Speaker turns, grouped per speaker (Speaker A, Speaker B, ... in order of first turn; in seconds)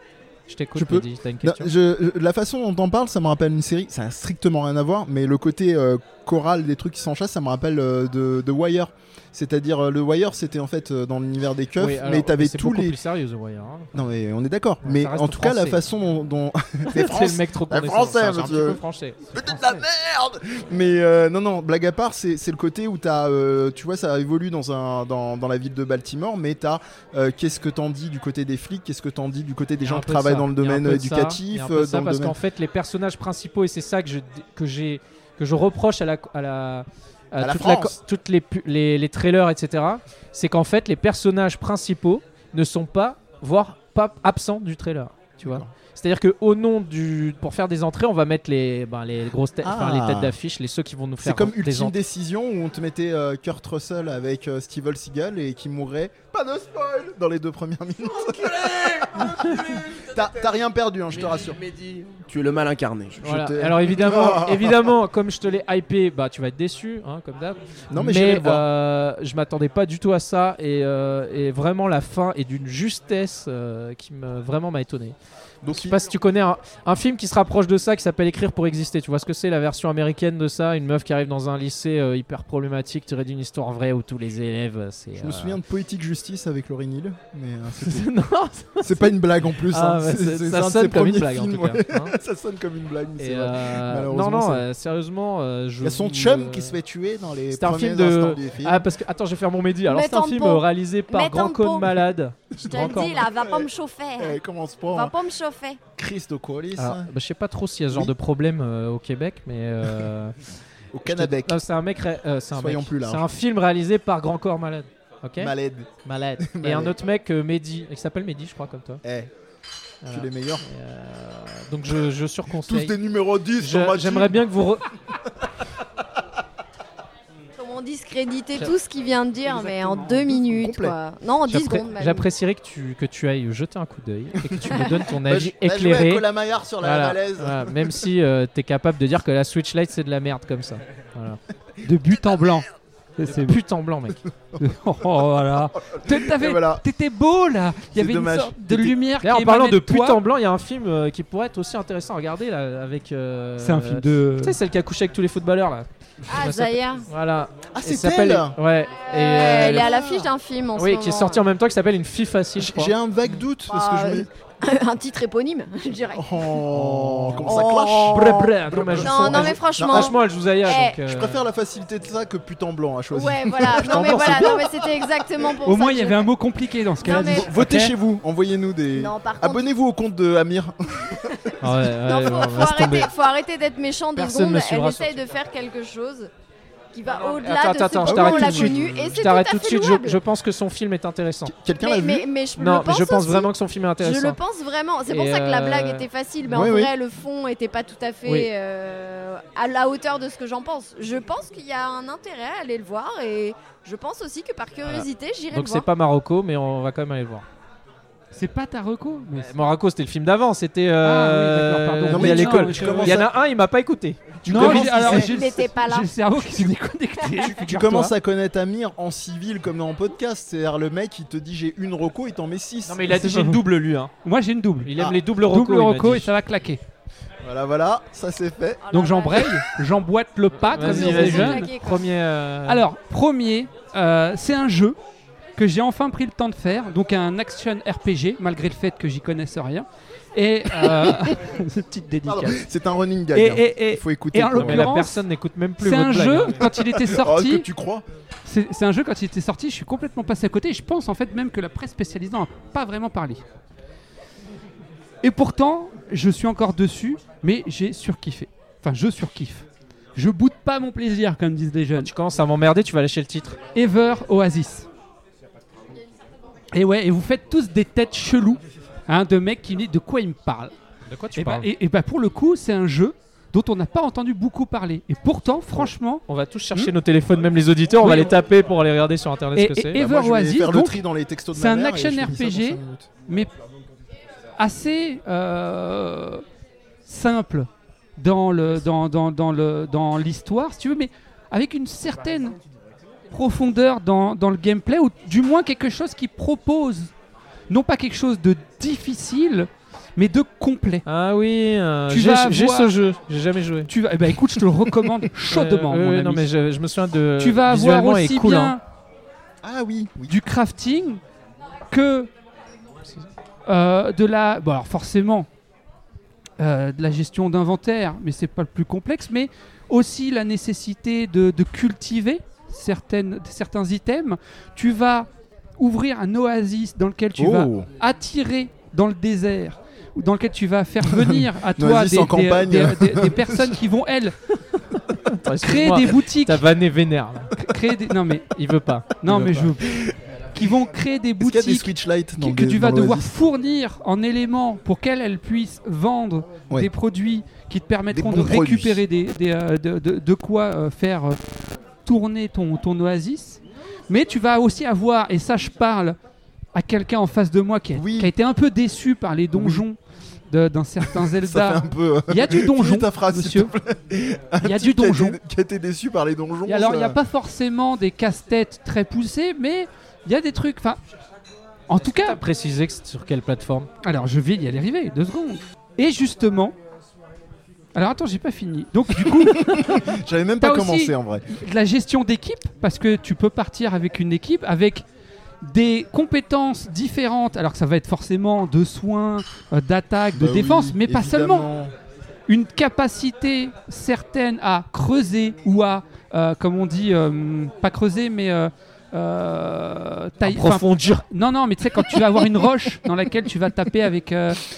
Speaker A: 0.5-1.7, 11.8-14.0, 14.8-15.8, 16.9-19.5, 29.8-52.0, 63.2-75.2, 75.7-85.6, 87.8-92.1, 93.2-96.8, 97.5-103.3, 106.8-110.3, 111.0-115.5, 116.0-119.0, 120.0-123.0, 123.6-124.8, 131.4-136.3, 136.8-141.4, 143.2-144.2, 149.2-159.9, 160.8-162.9, 166.7-171.4, 173.6-174.6, 181.6-183.1, 184.1-185.2, 187.1-191.5, 192.6-194.4, 195.1-196.1, 198.2-198.5, 204.9-207.4, 209.3-215.3, 222.9-224.1, 224.8-226.3, 230.5-232.8, 244.5-246.7, 262.0-263.6, 271.1-271.7, 276.3-280.0, 301.1-303.9, 305.4-308.7, 335.4-337.5, 338.5-339.7, 372.0-373.9, 400.4-401.2
Speaker B: 0.7-13.0, 13.9-18.8, 19.3-32.4, 37.4-38.0, 45.4-45.7, 49.6-50.3, 51.2-61.6, 63.1-64.9, 67.9-68.7, 75.6-76.0, 85.2-88.1, 88.8-94.7, 95.8-98.9, 102.6-103.7, 104.2-105.1, 106.0-107.1, 110.9-111.6, 112.5-113.2, 115.4-115.9, 116.4-117.0, 119.0-119.3, 120.1-120.6, 122.6-124.4, 129.5-131.0, 135.2-137.9, 145.8-146.8, 147.9-149.0, 157.7-158.6, 159.5-160.3, 162.6-164.3, 166.1-170.1, 170.8-174.9, 177.0-181.9, 188.0-189.1, 191.4-192.3, 196.5-196.9, 212.1-213.3, 214.4-215.3, 217.4-223.2, 227.4-228.8, 242.2-244.9, 246.7-248.0, 279.9-283.1, 309.6-310.4, 327.4-327.9, 331.0-333.8, 339.4-340.1, 341.4-343.3, 348.1-349.0, 357.9-358.3, 359.5-359.8, 361.1-367.2, 379.4-381.4, 390.3-391.9
Speaker C: 61.1-63.1
Speaker D: 99.9-102.1, 102.6-104.4, 104.9-105.8, 127.6-132.3, 156.3-157.0, 159.0-161.5, 163.6-166.7, 167.4-168.2, 169.0-171.0, 173.1-176.3, 177.0-177.5, 178.9-179.6, 182.0-186.3, 186.9-190.2, 191.8-205.9, 214.9-216.2, 217.2-217.5, 228.8-229.6, 230.7-232.1
Speaker E: 141.8-142.7, 143.2-143.6, 144.6-150.2, 153.6-154.6, 175.6-177.9, 208.3-209.5, 211.0-213.2, 214.4-218.1, 223.1-223.6, 224.2-226.8, 228.9-231.7, 232.7-235.0, 235.6-242.6, 243.3-245.2, 245.8-247.7, 248.4-253.4, 255.2-262.1, 263.7-264.9, 266.7-270.7, 271.4-276.9, 278.0-278.3, 279.5-281.0, 281.5-283.5, 284.6-286.4, 287.1-292.6, 293.3-297.1, 297.7-301.0, 302.1-302.9, 303.9-306.5, 307.4-308.8, 310.3-311.2, 311.9-312.3, 313.7-315.5, 316.6-334.4, 335.6-336.6, 337.6-338.5, 339.2-351.4, 352.0-356.2, 356.7-360.0, 360.5-363.7, 364.6-365.4, 366.6-371.0, 371.9-372.4, 374.0-376.7, 377.9-380.0, 380.6-385.0, 385.6-391.7, 392.5-404.6